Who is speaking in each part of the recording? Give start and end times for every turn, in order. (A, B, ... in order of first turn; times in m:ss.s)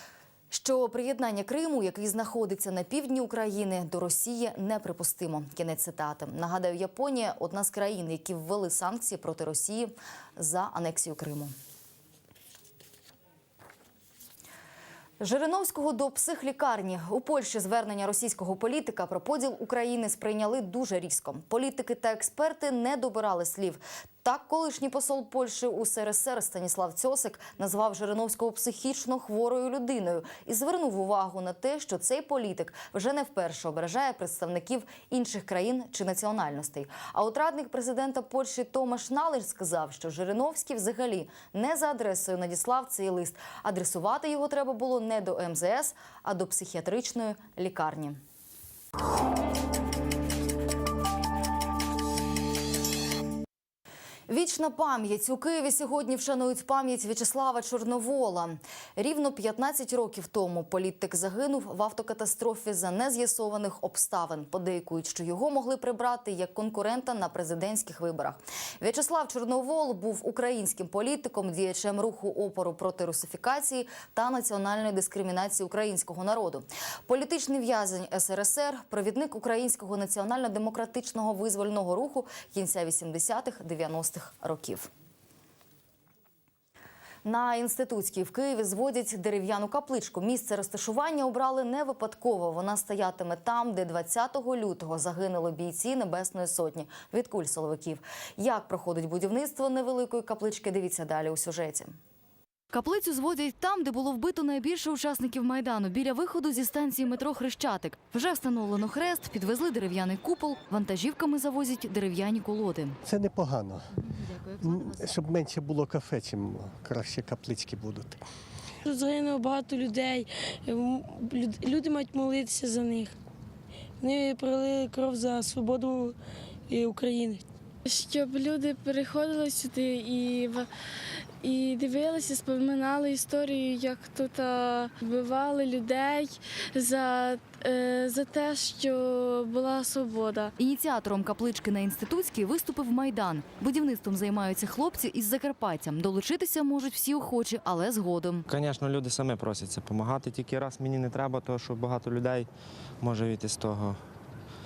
0:00.5-0:11.5 A
0:15.2-0:48.2 A
0:54.3-1:24.9 A
1:27.2-1:41.9 A
1:42.7-1:53.0 A
1:53.0-1:53.9 B
1:53.9-1:55.1 A
1:54.6-1:58.2 B
1:58.8-2:03.2 C
2:04.0-2:06.2 C
2:06.7-2:07.4 C
2:07.9-2:10.7 D
2:11.4-2:20.5 D
2:20.6-2:28.5 A
2:28.5-2:32.5 E
2:33.0-2:34.0 E